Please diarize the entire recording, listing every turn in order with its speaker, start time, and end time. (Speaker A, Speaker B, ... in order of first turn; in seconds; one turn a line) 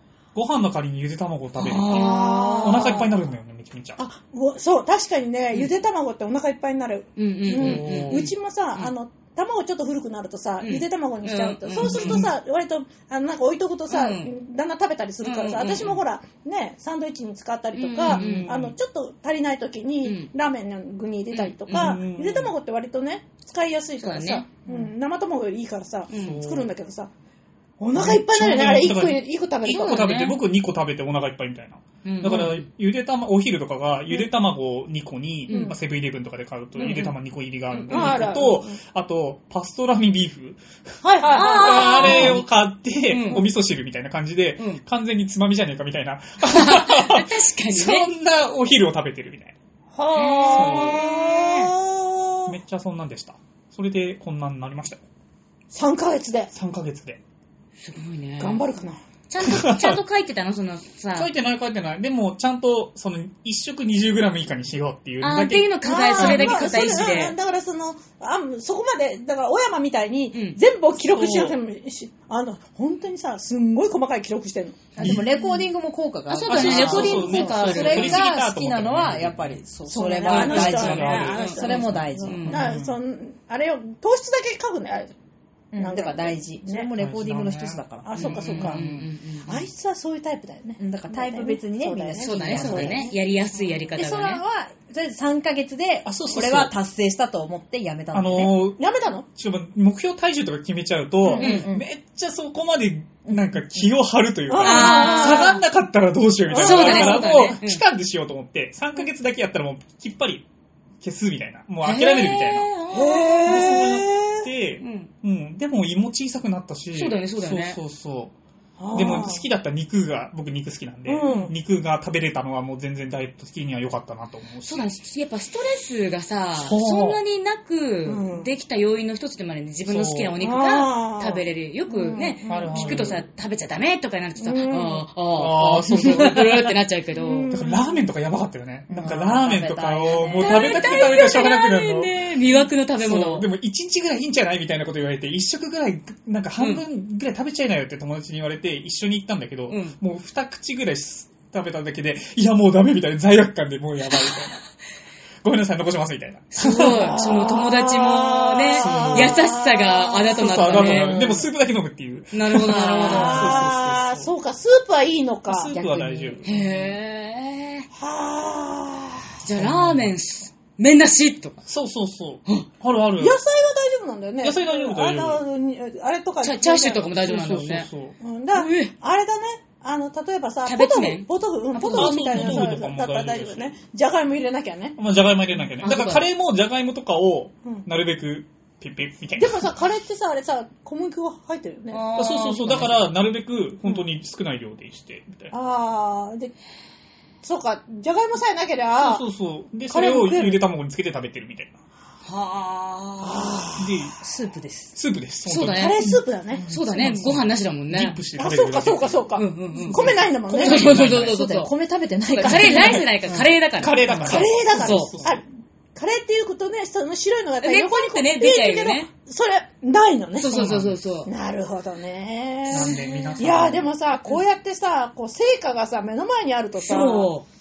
Speaker A: 0.3-4.0
Speaker B: 1.6-3.0
Speaker C: 1.8-3.1
Speaker C: 4.0-27.1
Speaker B: 7.2-8.9
Speaker A: 7.5-8.3
Speaker B: 10.6-12.3
Speaker A: 11.8-12.3
Speaker B: 13.9-14.3
Speaker B: 15.2-16.0
Speaker B: 17.8-18.5
Speaker A: 18.0-18.7
Speaker B: 20.0-20.3
Speaker B: 21.3-22.0
Speaker A: 21.7-22.5
Speaker B: 24.0-24.5
Speaker B: 26.1-26.4
Speaker A: 26.1-26.7
Speaker C: 27.8-30.0
Speaker A: 27.9-49.5
Speaker B: 29.7-30.4
Speaker B: 32.0-32.6
Speaker B: 35.5-35.8
Speaker C: 35.5-35.8
Speaker B: 36.8-37.2
Speaker B: 37.7-38.3
Speaker C: 37.9-38.8
Speaker C: 41.0-42.4
Speaker B: 41.3-42.5
Speaker B: 43.1-43.5
Speaker B: 46.4-48.1
Speaker C: 49.9-52.5
Speaker B: 50.1-51.7
Speaker A: 50.5-51.0
Speaker A: 52.5-55.0
Speaker C: 55.7-56.5
Speaker A: 56.5-57.2
Speaker B: 57.8-58.6
Speaker C: 58.4-59.0
Speaker B: 59.3-61.3
Speaker A: 59.4-60.0
Speaker A: 61.1-67.2
Speaker B: 65.2-67.4
Speaker C: 65.8-74.9
Speaker B: 70.3-70.6
Speaker A: 71.0-71.6
Speaker D: 75.0-82.8
Speaker A: 75.0-75.3
Speaker B: 75.0-75.6
Speaker B: 76.3-78.3
Speaker A: 76.5-79.6
Speaker C: 79.9-85.1
Speaker A: 80.3-81.8
Speaker B: 81.0-82.6
Speaker A: 82.4-83.0
Speaker D: 85.7-88.9
Speaker C: 85.8-86.9
Speaker A: 87.0-87.8
Speaker C: 88.0-88.8
Speaker B: 88.1-89.6
Speaker A: 88.6-89.0
Speaker C: 89.5-93.1
Speaker D: 90.8-93.1
Speaker B: 92.2-94.4
Speaker D: 94.0-98.6
Speaker A: 96.0-96.8
Speaker A: 98.1-98.8
Speaker C: 98.8-99.3
Speaker A: 99.3-110.4
Speaker C: 101.3-101.6
Speaker D: 101.3-101.9
Speaker B: 101.4-101.7
Speaker D: 103.3-103.8
Speaker C: 104.5-105.6
Speaker B: 104.6-105.6
Speaker C: 106.5-107.4
Speaker B: 106.5-107.8
Speaker A: 111.0-112.7
Speaker B: 111.8-113.8
Speaker C: 112.9-114.5
Speaker A: 113.4-118.3
Speaker B: 114.8-115.1
Speaker B: 116.9-117.8
Speaker C: 118.8-119.4
Speaker A: 118.9-124.9
Speaker C: 121.1-121.5
Speaker B: 121.2-121.5
Speaker B: 124.6-137.5
Speaker A: 126.6-127.2
Speaker C: 128.1-128.5
Speaker A: 129.9-130.4
Speaker C: 130.4-133.2
Speaker A: 132.4-133.2
Speaker C: 134.4-135.1
Speaker A: 135.3-136.5
Speaker C: 137.1-138.0
Speaker A: 137.5-142.3
Speaker D: 138.9-141.2
Speaker B: 140.4-143.5
Speaker A: 143.0-154.7
Speaker B: 146.6-146.8
Speaker B: 149.7-150.0
Speaker A: 155.4-157.2
Speaker B: 156.5-161.5
Speaker C: 156.7-161.1
Speaker A: 158.8-159.5
Speaker A: 160.3-164.3
Speaker B: 162.3-163.6
Speaker D: 162.8-163.3
Speaker C: 162.9-165.7
Speaker A: 165.5-166.5
Speaker D: 165.8-166.4
Speaker B: 166.4-167.9
Speaker C: 167.9-169.3
Speaker B: 169.4-171.6
Speaker A: 169.6-170.1
Speaker A: 171.6-173.4
Speaker C: 173.2-177.1
Speaker A: 174.4-175.4
Speaker B: 176.4-177.9
Speaker A: 177.2-178.2
Speaker C: 178.2-185.0
Speaker B: 178.5-178.9
Speaker B: 180.6-182.7
Speaker A: 181.9-183.8
Speaker A: 185.0-189.6
Speaker B: 185.8-186.3
Speaker C: 189.4-192.0
Speaker B: 191.9-193.0
Speaker A: 192.2-195.5
Speaker C: 195.5-196.5
Speaker C: 197.4-199.2
Speaker A: 199.0-201.8
Speaker C: 199.9-200.6
Speaker B: 202.2-203.6
Speaker C: 203.2-204.0
Speaker A: 203.8-204.2
Speaker D: 204.2-204.9
Speaker A: 204.9-206.1
Speaker B: 205.4-206.0
Speaker C: 205.7-206.7
Speaker D: 206.5-207.4
Speaker B: 206.7-208.2
Speaker A: 206.9-210.2
Speaker C: 208.4-210.9
Speaker B: 209.3-211.7
Speaker D: 210.5-213.4
Speaker A: 210.7-211.4
Speaker B: 212.3-215.2
Speaker A: 212.4-213.1
Speaker A: 213.8-215.4
Speaker C: 214.2-220.5
Speaker B: 217.6-219.1
Speaker B: 220.4-221.3
Speaker A: 220.4-221.0
Speaker C: 221.2-227.3
Speaker A: 222.7-223.9
Speaker B: 222.7-223.5
Speaker B: 226.8-227.5